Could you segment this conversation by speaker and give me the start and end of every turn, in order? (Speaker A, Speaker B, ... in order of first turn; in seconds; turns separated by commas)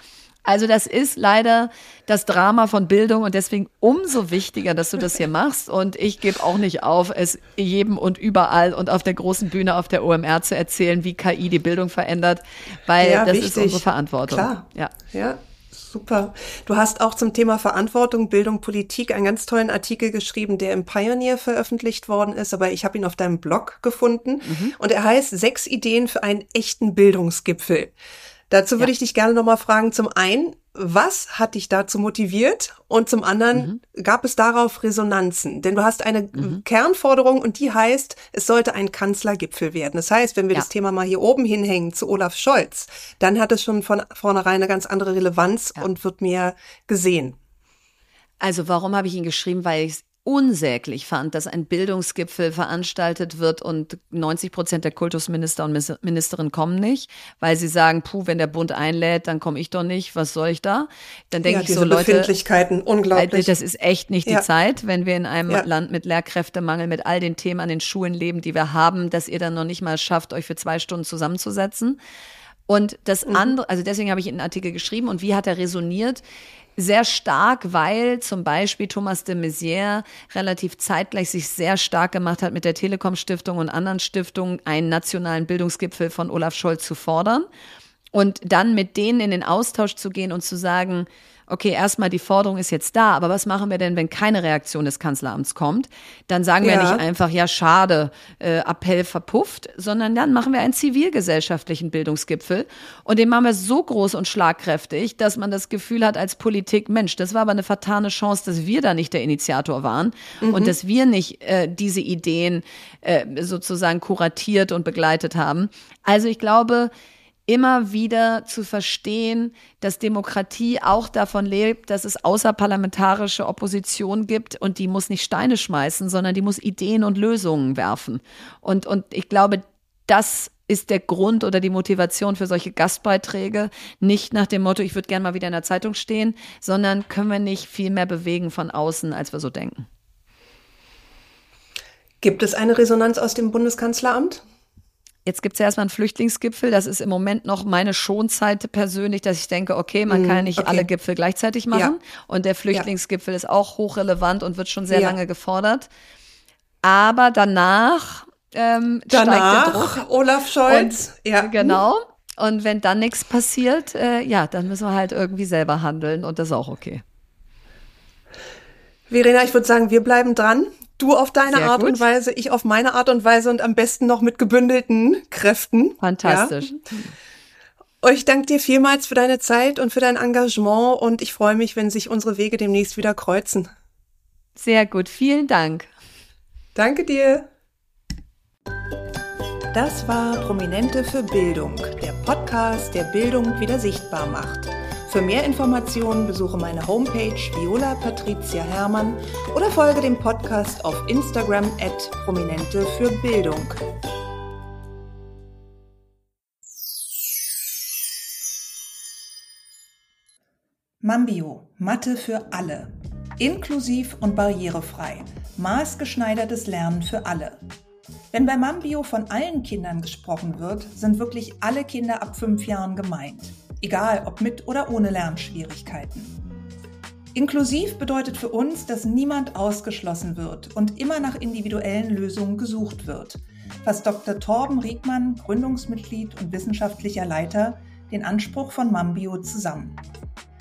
Speaker A: 0.5-14.9, Speaker B: 13.0-27.9, Speaker A: 24.4-24.8, Speaker B: 28.5-47.4, Speaker A: 33.5-33.8, Speaker A: 36.4-36.6, Speaker A: 48.4-62.3, Speaker B: 61.5-63.5, Speaker A: 63.1-72.0, Speaker A: 72.7-76.2, Speaker A: 76.8-87.5, Speaker A: 88.1-116.9, Speaker B: 96.6-97.0, Speaker B: 110.4-110.8, Speaker A: 117.5-139.9, Speaker B: 142.2-144.4, Speaker A: 145.3-155.9, Speaker B: 150.1-150.9, Speaker B: 154.9-155.2, Speaker A: 156.8-160.0, Speaker B: 159.1-161.8, Speaker A: 160.7-167.0, Speaker B: 169.1-176.6, Speaker A: 171.5-172.0, Speaker A: 176.0-177.1, Speaker B: 178.0-183.7, Speaker A: 184.6-185.9, Speaker B: 186.8-187.5, Speaker C: 189.7-203.8, Speaker C: 211.0-217.6, Speaker C: 218.3-226.4, Speaker C: 227.3-240.0